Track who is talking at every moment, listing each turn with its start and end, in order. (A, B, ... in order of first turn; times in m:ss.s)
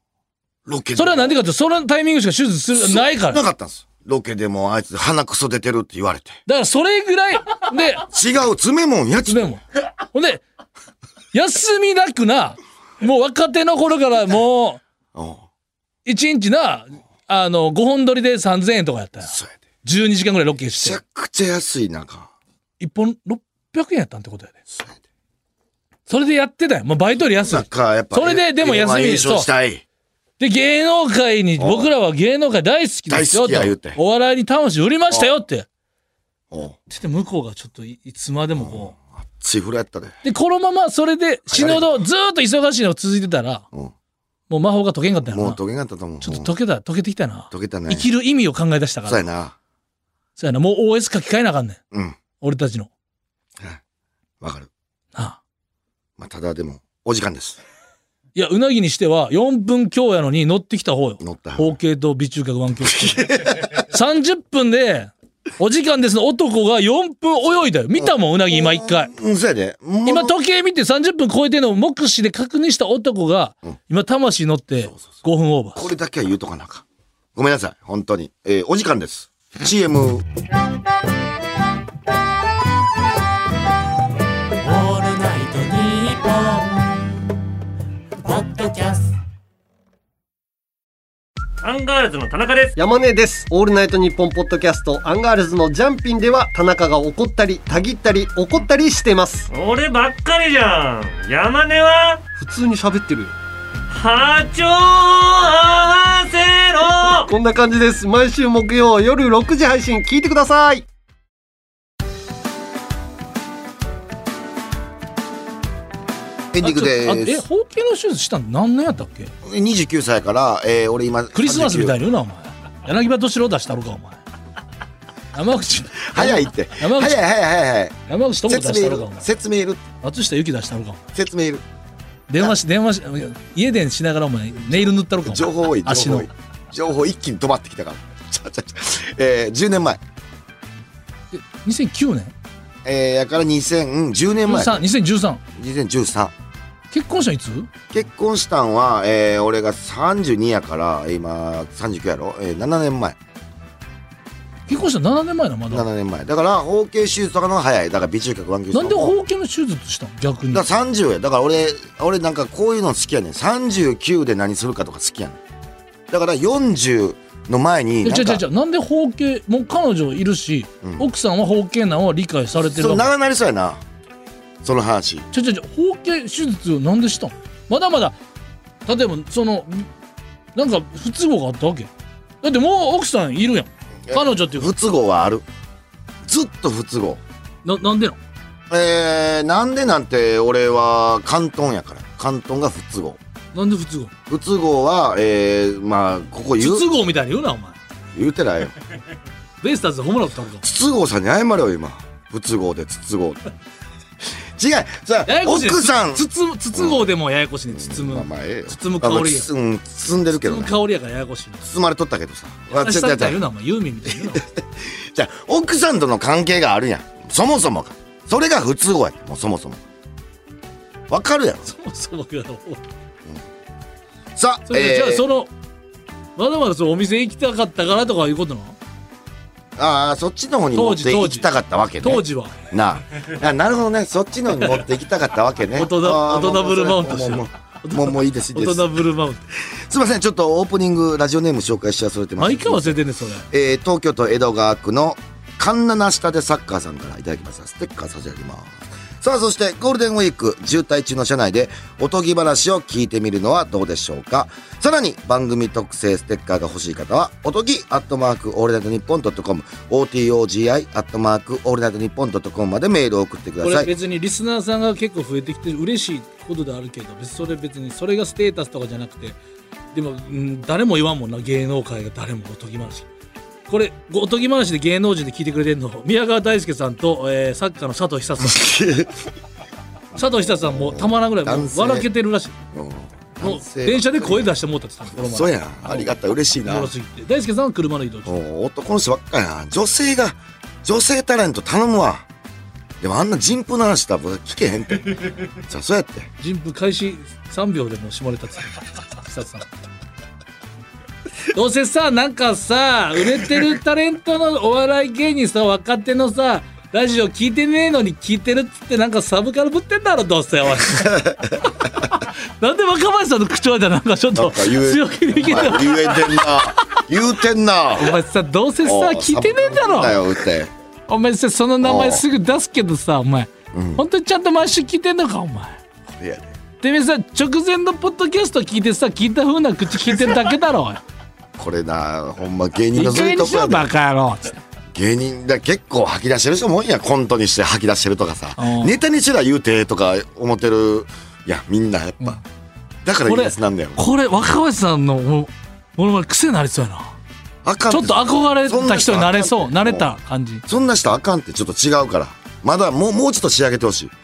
0:00.7-0:01.4 A
0:01.0-0:03.4 B
0:02.7-0:06.4 A
0:06.5-0:08.1 B
0:08.1-0:09.6 A
0:09.3-0:10.4 B
0:11.3-0:14.8 B
0:15.2-0:15.4 A
0:16.0-0:21.0 B
0:19.3-0:19.6 A
0:20.8-0:22.3 A
0:22.8-0:24.6 B
0:24.7-0:25.0 A
0:26.1-0:29.5 B
0:27.4-0:29.8 A
0:30.4-0:35.7 B
0:31.6-0:31.9 A
0:33.1-0:34.0 A
0:36.5-0:36.8 A
0:36.9-0:39.0 B
0:38.6-0:40.2 A
0:40.2-0:43.7 B
0:41.5-0:42.0 A
0:44.5-0:45.6 B
0:45.3-0:46.6 A
0:46.2-0:49.3 B
0:47.5-0:48.1 A
0:49.1-0:49.6 A
0:50.4-0:51.8 B
0:51.9-0:52.2 A
0:52.4-0:52.9 B
0:54.4-0:54.7 A
0:55.2-0:55.4 B
0:56.2-0:57.6 A
0:58.4-1:09.1 B
1:01.2-1:01.8 A
1:02.8-1:03.8 A
1:08.0-1:10.4 A
1:10.0-1:15.9 B
1:14.9-1:15.2 A
1:15.8-1:20.3 A
1:24.6-1:26.9 C
1:28.2-1:29.2 C
1:31.6-1:32.8 D
1:32.8-1:39.5 E
1:39.5-1:42.2 D
1:42.4-1:43.4 E
1:43.9-1:47.3 D
1:47.3-1:50.9 E
1:56.5-1:57.4 A
1:56.6-1:59.3 B
1:59.4-2:02.0 A
2:01.4-2:04.2 B
2:05.3-2:07.2 B
2:06.0-2:09.8 A
2:08.1-2:09.3 B
2:10.0-2:11.0 B
2:11.1-2:11.6 A
2:12.3-2:16.3 B
2:14.7-2:20.0 A
2:21.3-2:22.3 B
2:22.8-2:24.9 A
2:24.5-2:25.4 B
2:25.6-2:26.3 A
2:26.9-2:27.7 B
2:27.9-2:33.2 A
2:34.7-2:35.9 B
2:35.7-2:39.2 A
2:38.7-2:40.6 B
2:40.5-2:45.4 A
2:46.1-2:48.4 A
2:48.0-2:53.1 B
2:50.8-2:51.1 A
2:52.6-2:53.8 A
2:54.6-2:55.3 A
2:55.3-2:58.2 B
2:58.9-2:59.9 B
3:00.6-3:01.9 B
3:02.4-3:04.7 B
3:04.1-3:05.4 A
3:06.2-3:07.2 A
3:07.6-3:08.2 B
3:08.7-3:13.2 A
3:13.5-3:14.1 B
3:14.3-3:16.9 A
3:16.6-3:17.8 B
3:18.2-3:18.8 A
3:19.6-3:20.6 B
3:20.6-3:23.4 A
3:24.2-3:27.1 A
3:25.3-3:29.5 B
3:27.7-3:30.7 A
3:30.3-3:31.7 B
3:31.6-3:33.4 A
3:32.7-3:34.4 B
3:34.1-3:39.8 A
3:41.1-3:41.7 A
3:41.7-3:42.8 B
3:44.4-3:45.2 A
3:44.7-3:45.5 B
3:46.4-3:48.8 B
3:49.8-3:59.0 A
3:50.7-3:51.5 B
3:52.0-3:52.6 B
3:55.8-3:59.4 B
3:59.6-4:23.9 A
4:02.4-4:03.5 B
4:23.6-4:29.4 B
4:29.9-4:33.1 B
4:33.7-4:38.7 B
4:38.4-4:39.2 A
4:40.2-4:42.6 B
4:40.2-4:42.1 A
4:42.7-4:44.5 A
4:43.4-4:48.3 B
4:45.1-4:46.9 A
4:48.3-4:52.3 A
4:53.0-4:56.3 A
4:56.4-4:59.8 B
5:01.5-5:16.6 B
5:10.9-5:11.7 A
5:14.4-5:18.2 A
5:18.0-5:20.2 B
5:18.8-5:20.7 A
5:21.1-5:25.8 B
5:21.8-5:22.2 A
5:23.7-5:24.0 A
5:26.1-5:26.6 A
5:26.8-5:31.0 B
5:31.6-5:33.9 A
5:33.0-5:34.6 B
5:34.9-5:42.4 A
5:38.6-5:39.0 B
5:43.0-5:44.0 A
5:43.2-5:47.2 B
5:47.6-5:50.1 A
5:47.9-5:50.6 B
5:50.7-5:54.1 A